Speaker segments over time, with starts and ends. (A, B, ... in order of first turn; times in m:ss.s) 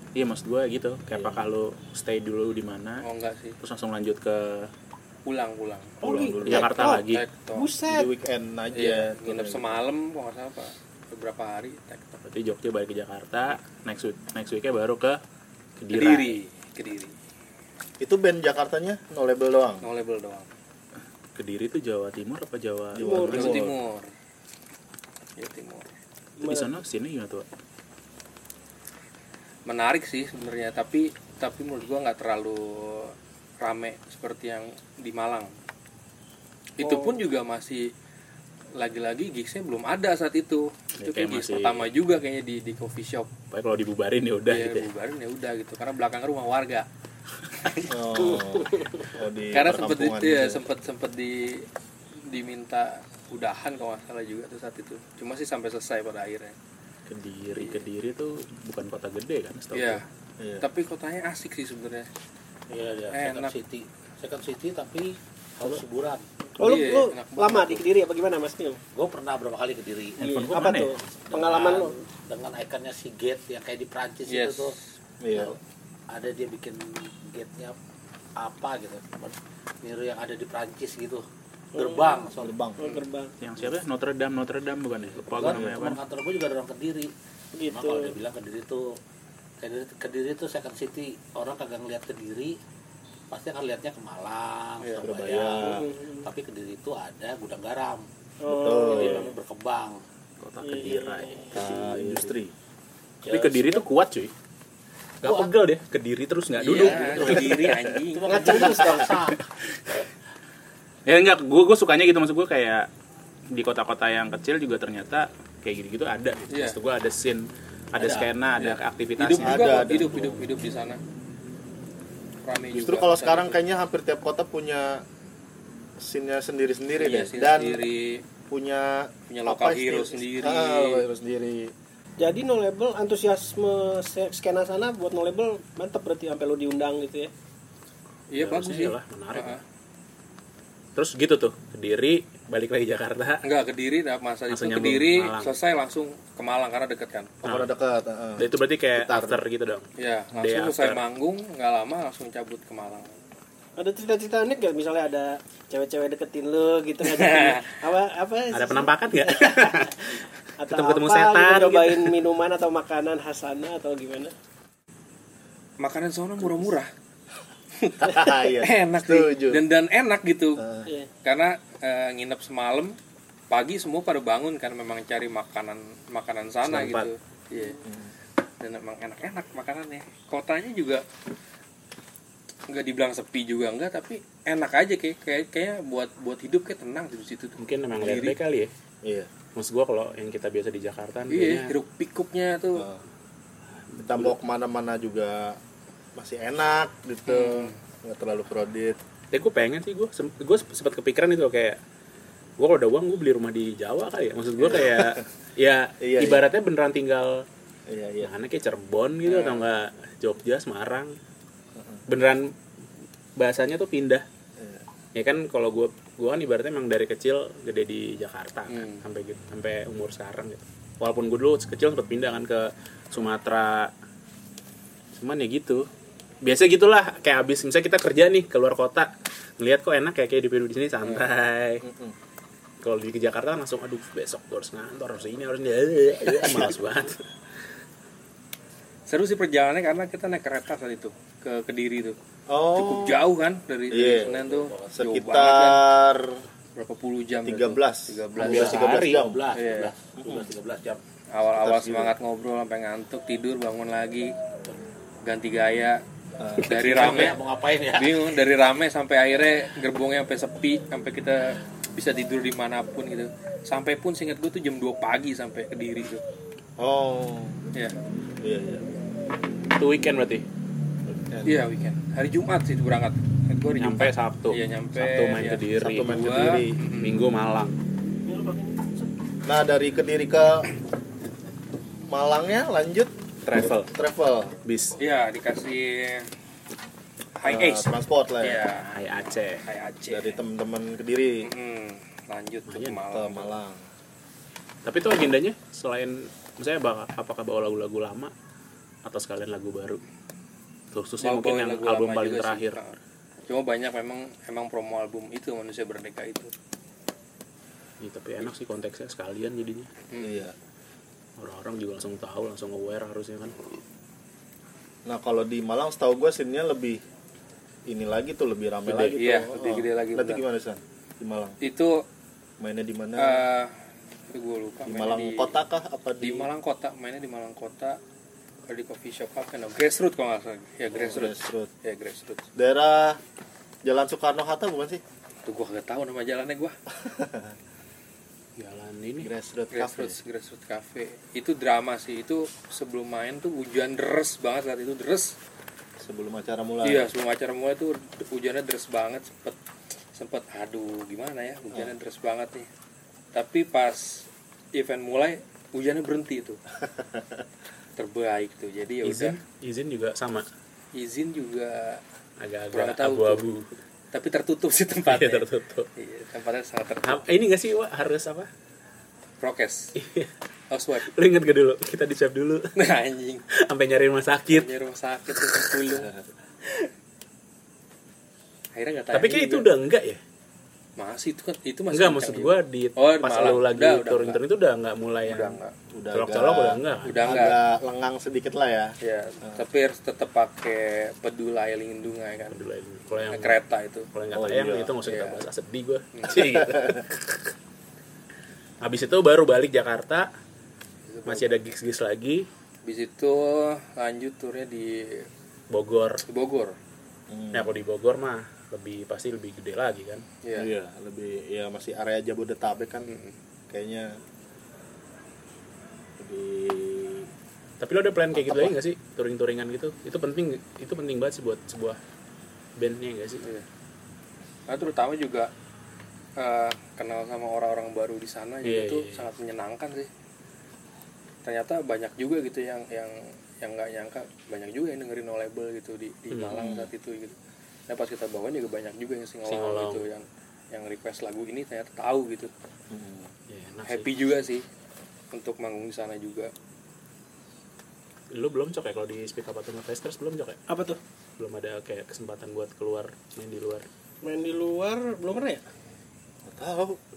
0:00.2-0:03.1 A
0:01.1-0:01.5 B
0:03.0-0:03.6 C
0:03.6-0:04.7 A
0:05.3-0:06.0 C
0:06.0-0:06.7 B
0:06.0-0:08.1 D
0:06.4-0:07.2 A
0:07.0-0:07.7 C
0:07.9-0:09.8 B
0:08.7-0:12.2 C
0:12.2-0:15.2 A
0:15.8-0:16.4 A
0:15.9-0:17.1 C
0:18.0-0:19.9 B
0:19.8-0:20.5 C
0:21.4-0:23.6 A
0:23.0-0:23.7 B
0:23.0-0:23.5 D
0:23.3-0:24.1 C
0:25.4-0:25.9 C
0:26.4-0:26.8 D
0:26.4-0:27.5 A
0:29.7-0:35.5 C
0:36.8-0:37.9 C
0:36.8-0:37.2 D
0:38.8-0:43.3 C
0:41.0-0:41.9 A
0:43.5-0:44.9 A
0:44.5-0:46.9 C
0:47.6-0:48.6 C
0:47.9-0:50.6 B
0:49.5-0:51.7 C
0:52.3-0:56.6 C
0:57.1-1:00.0 A
0:57.6-0:57.8 C
0:59.7-1:00.0 C
1:00.4-1:00.6 B
1:00.6-1:02.1 C
1:02.7-1:06.2 E
1:03.1-1:03.5 C
1:06.6-1:08.8 D
1:06.6-1:07.8 C
1:09.0-1:10.7 E
1:10.2-1:11.0 A
1:10.2-1:11.9 D
1:11.3-1:14.8 E
1:14.3-1:14.8 C
1:15.2-1:15.6 B
1:15.3-1:15.6 E
1:16.1-1:17.8 E
1:18.4-1:21.2 E
1:21.8-1:22.6 E
1:21.8-1:23.3 D
1:22.4-1:22.8 B
1:23.4-1:26.0 A
1:25.0-1:27.1 E
1:27.5-1:28.1 D
1:27.7-1:29.0 E
1:29.6-1:32.6 E
1:33.3-1:38.1 E
1:35.0-1:35.8 B
1:35.6-1:36.3 D
1:38.4-1:39.3 D
1:38.5-1:39.3 B
1:38.7-1:40.0 E
1:40.4-1:42.3 A
1:40.6-1:41.5 D
1:41.6-1:42.5 B
1:43.2-1:43.9 E
1:43.3-1:44.3 A
1:45.2-1:47.6 A
1:45.2-1:45.6 E
1:46.6-1:48.8 C
1:46.6-1:49.5 E
1:48.3-1:49.1 D
1:51.1-1:52.9 A
1:53.5-2:00.1 A
1:56.5-1:56.8 C
1:58.0-1:58.3 E
1:58.6-2:01.0 C
1:59.4-2:00.4 B
2:02.4-2:03.6 C
2:02.7-2:05.0 B
2:06.0-2:07.8 B
2:07.0-2:08.2 C
2:08.5-2:11.7 B
2:09.3-2:11.0 C
2:12.2-2:17.3 D
2:18.3-2:19.6 C
2:18.4-2:19.6 A
2:21.0-2:23.4 A
2:23.4-2:27.4 C
2:24.5-2:25.6 A
2:27.4-2:27.7 A
2:27.4-2:29.4 B
2:28.4-2:31.0 A
2:30.0-2:33.1 C
2:33.8-2:39.9 D
2:37.1-2:37.6 C
2:38.5-2:42.2 A
2:40.6-2:44.3 D
2:45.8-2:46.9 C
2:47.8-2:50.6 C
2:48.0-2:49.6 B
2:50.6-2:50.9 B
2:51.2-2:53.0 C
2:53.5-2:57.8 C
2:56.6-2:57.1 A
2:57.8-2:58.1 B
2:58.6-3:01.0 C
3:02.7-3:08.4 C
3:07.6-3:08.7 A
3:09.0-3:09.3 B
3:09.6-3:11.8 A
3:11.3-3:12.9 C
3:12.8-3:13.0 B
3:13.9-3:14.4 A
3:14.0-3:15.6 B
3:16.2-3:19.0 B
3:17.3-3:17.8 C
3:19.3-3:21.8 A
3:22.6-3:27.4 A
3:24.6-3:25.2 B
3:26.0-3:26.4 B
3:27.9-3:28.3 B
3:28.2-3:31.2 A
3:29.2-3:29.7 C
3:31.8-3:32.0 B
3:32.1-3:32.5 A
3:33.4-3:34.2 A
3:34.6-3:34.8 B
3:35.2-3:43.9 A
3:38.7-3:39.0 C
3:45.1-3:45.9 A
3:46.4-3:51.8 A
3:51.8-3:52.2 B
3:52.8-3:57.2 A
3:56.4-3:56.7 B
3:59.1-4:02.2 C
4:02.5-4:03.3 B
4:02.8-4:05.8 C
4:03.9-4:04.3 B
4:04.2-4:04.9 E
4:04.9-4:06.4 B
4:06.8-4:08.8 C
4:07.4-4:09.4 B
4:08.4-4:09.2 A
4:08.4-4:11.0 E
4:09.6-4:09.9 C
4:10.2-4:10.5 B
4:11.3-4:14.3 C
4:11.5-4:12.2 B
4:15.2-4:16.0 C
4:16.4-4:17.2 B
4:16.7-4:18.4 E
4:16.7-4:26.2 C
4:26.8-4:27.6 B
4:28.4-4:28.9 B
4:29.8-4:30.4 A
4:31.2-4:31.7 B
4:31.4-4:37.2 C
4:33.8-4:37.8 A
4:35.8-4:36.8 B
4:38.3-4:39.1 D
4:39.5-4:40.7 B
4:42.1-4:44.6 B
4:43.5-4:43.9 A
4:44.7-4:45.0 A
4:45.0-4:46.3 C
4:47.4-4:47.9 C
4:47.4-4:48.6 B
4:48.4-4:48.9 C
4:48.8-4:49.6 A
4:49.6-4:50.4 C
4:50.1-4:51.5 B
4:51.4-4:53.6 C
4:52.7-4:53.0 A
4:53.1-4:53.8 B
4:54.8-4:58.3 A
4:59.0-5:00.0 A
5:00.9-5:02.8 A
5:01.2-5:06.5 C
5:08.0-5:09.9 A
5:10.1-5:10.4 C
5:10.2-5:10.6 B
5:11.4-5:13.6 A
5:15.1-5:17.0 B
5:17.9-5:21.6 B
5:18.9-5:20.4 C
5:21.6-5:22.0 C
5:22.6-5:23.4 B
5:23.2-5:23.7 C
5:24.3-5:25.5 C
5:24.9-5:26.5 B
5:26.2-5:28.0 C
5:28.7-5:32.5 C
5:30.9-5:31.7 B
5:32.6-5:33.2 B
5:33.8-5:35.0 B
5:35.4-5:36.8 C
5:37.0-5:37.6 B
5:38.6-5:39.3 A
5:39.2-5:40.2 B
5:39.7-5:45.4 C
5:46.0-5:47.1 B
5:46.8-5:49.6 C
5:50.1-5:52.7 C
5:53.3-5:56.6 C
5:57.0-5:57.2 B
5:58.0-5:59.4 C
5:59.0-6:00.5 A
6:01.0-6:02.0 C
6:02.4-6:03.7 A
6:02.7-6:03.4 C
6:04.1-6:07.3 C
6:05.1-6:05.9 A
6:07.0-6:08.5 A
6:09.4-6:09.9 C
6:10.0-6:10.3 A
6:10.7-6:11.1 C
6:11.0-6:12.7 A
6:12.8-6:13.4 C
6:13.5-6:14.7 A
6:14.5-6:16.1 C
6:15.5-6:15.8 A
6:18.8-6:19.7 C
6:19.1-6:20.2 A
6:21.0-6:24.4 C
6:21.9-6:25.6 A
6:25.2-6:25.7 C
6:25.9-6:28.9 B
6:26.1-6:27.4 A
6:27.0-6:27.6 C
6:29.0-6:32.6 C
6:32.5-6:33.6 A
6:33.3-6:34.1 C
6:34.1-6:37.5 A
6:34.3-6:34.9 B
6:35.1-6:35.4 C
6:36.1-6:36.4 C
6:36.4-6:37.0 B
6:38.8-6:40.3 A
6:41.1-6:41.6 C
6:41.3-6:42.5 A
6:42.9-6:45.3 C
6:45.7-6:46.2 A
6:46.3-6:46.8 C
6:47.3-6:47.8 B
6:47.5-6:50.2 A
6:50.4-6:50.7 C
6:50.6-6:53.1 B
6:53.1-6:53.4 C
6:53.7-6:54.1 B
6:56.2-6:57.3 B
6:57.8-7:02.0 A
6:58.4-6:58.7 B
7:02.8-7:03.5 A
7:04.7-7:05.5 C
7:06.4-7:10.1 C
7:08.6-7:09.3 A
7:11.4-7:17.4 C
7:16.3-7:16.7 A
7:16.5-7:16.9 B
7:17.9-7:22.5 C
7:19.5-7:20.0 A
7:22.9-7:23.3 B
7:23.5-7:24.1 A
7:23.9-7:24.6 C
7:25.3-7:26.5 C
7:28.3-7:30.6 A
7:30.7-7:31.0 D
7:31.4-7:33.9 A
7:34.2-7:35.6 D
7:36.4-7:37.0 B